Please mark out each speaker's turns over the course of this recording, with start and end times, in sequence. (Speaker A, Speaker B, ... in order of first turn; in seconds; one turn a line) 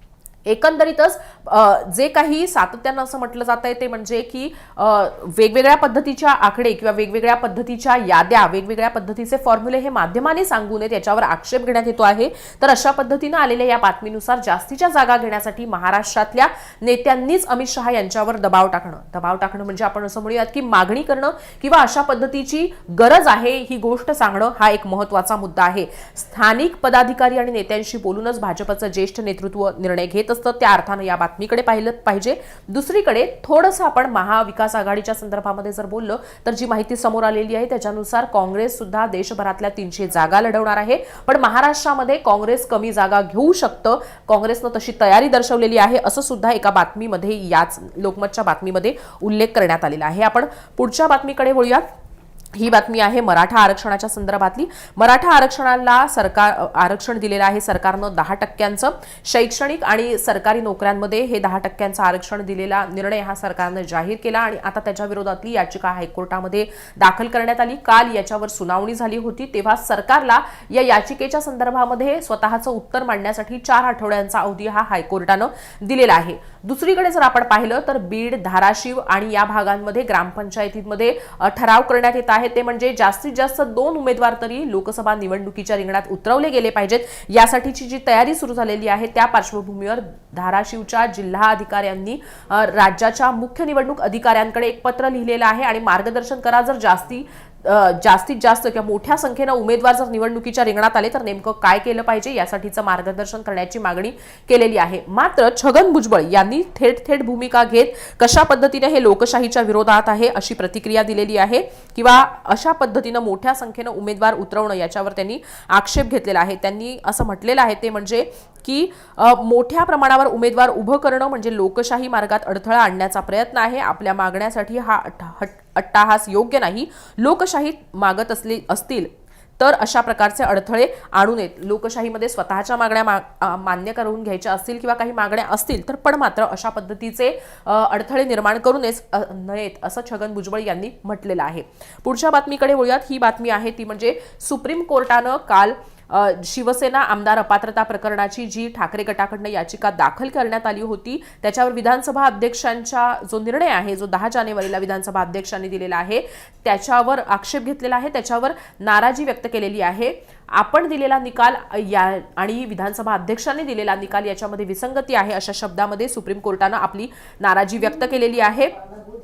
Speaker A: 0.5-51.8
Speaker A: 52.5-168.7